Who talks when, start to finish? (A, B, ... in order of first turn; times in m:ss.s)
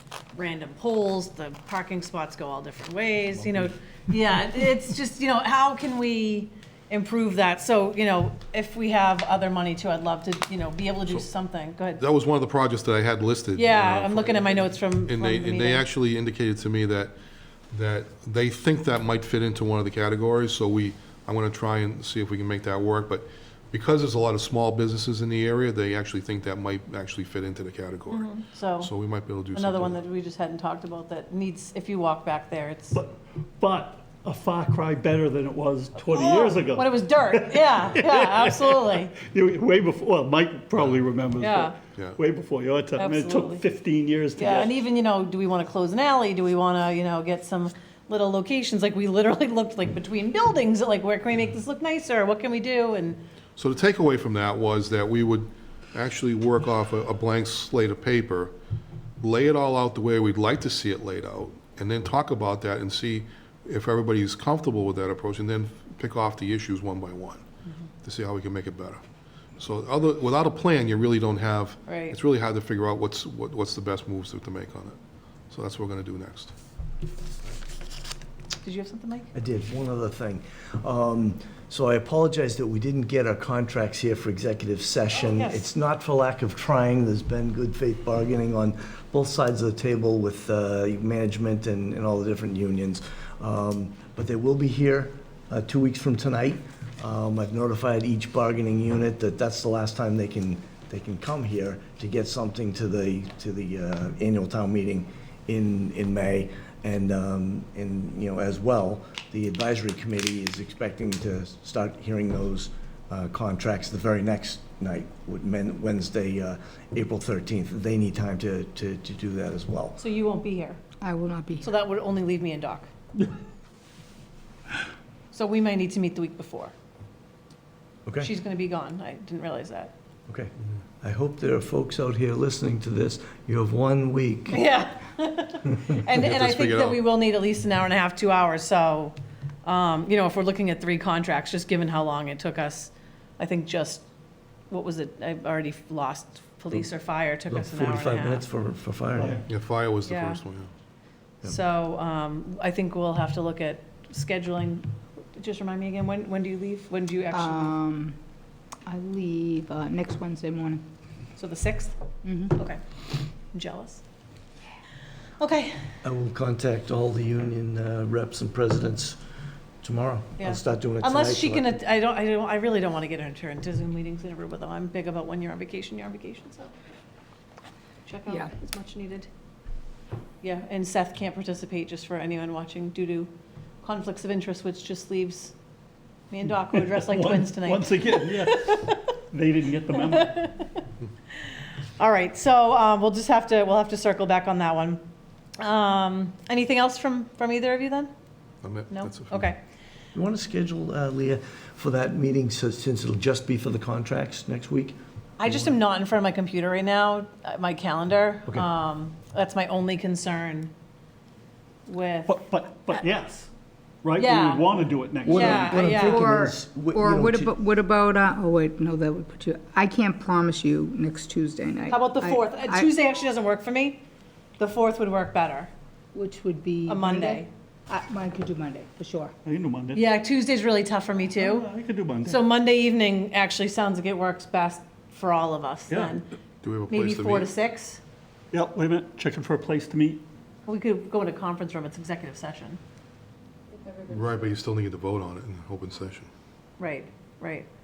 0:00.3-0:12.0 A
0:12.0-0:17.2 B
0:13.6-0:15.9 A
0:17.7-0:30.0 B
0:28.1-0:28.9 A
0:29.5-0:33.0 A
0:32.9-0:44.7 C
0:36.1-0:39.1 A
0:41.4-0:41.8 A
0:43.0-0:43.6 A
0:44.4-0:53.2 A
0:53.6-0:58.5 B
0:59.2-1:07.4 B
1:08.0-1:09.0 B
1:09.6-1:15.0 B
1:11.9-1:12.2 A
1:15.5-1:16.5 B
1:18.6-1:19.3 A
1:19.3-2:00.0 D
1:25.2-1:25.7 A
2:00.0-2:00.8 A
2:01.0-2:01.7 E
2:01.6-2:02.9 A
2:05.3-2:06.7 A
2:08.1-2:08.3 D
2:08.2-2:09.9 A
2:10.3-2:14.7 D
2:14.5-2:24.1 A
2:16.1-2:17.0 B
2:24.7-2:28.4 A
2:27.5-2:29.4 D
2:29.2-2:29.4 C
2:29.5-2:30.7 B
2:30.0-2:30.4 A
2:31.4-2:37.8 A
2:37.3-2:38.2 E
2:38.9-2:40.8 E
2:41.4-2:42.0 A
2:42.2-2:42.6 E
2:42.5-2:42.8 A
2:43.5-2:44.0 A
2:45.4-2:45.8 A
2:46.0-2:49.2 D
2:49.8-2:51.8 D
2:50.4-2:56.7 A
2:58.1-2:59.3 A
3:00.4-3:05.6 A
3:06.3-3:09.1 A
3:06.8-3:10.5 C
3:10.0-3:10.8 A
3:12.0-3:15.0 A
3:15.6-3:18.1 A
3:18.6-3:19.5 B
3:18.9-3:19.6 A
3:20.1-3:25.0 D
3:25.4-3:30.7 A
3:31.9-3:32.4 A
3:32.3-3:33.5 C
3:34.0-3:36.0 C
3:34.2-3:34.7 A
3:35.2-3:37.5 D
3:35.3-3:36.2 A
3:36.0-3:42.9 E
3:41.9-3:44.0 A
3:44.6-3:45.7 A
3:46.2-3:49.3 E
3:46.9-3:47.5 A
3:49.4-3:50.0 C
3:49.9-3:51.7 A
3:51.3-3:52.4 C
3:52.2-3:56.3 A
3:55.9-3:56.2 C
3:56.6-3:57.5 B
3:56.9-3:58.0 A
3:58.5-4:00.2 C
4:00.7-4:02.8 A
4:04.1-4:06.3 B
4:06.8-4:07.7 A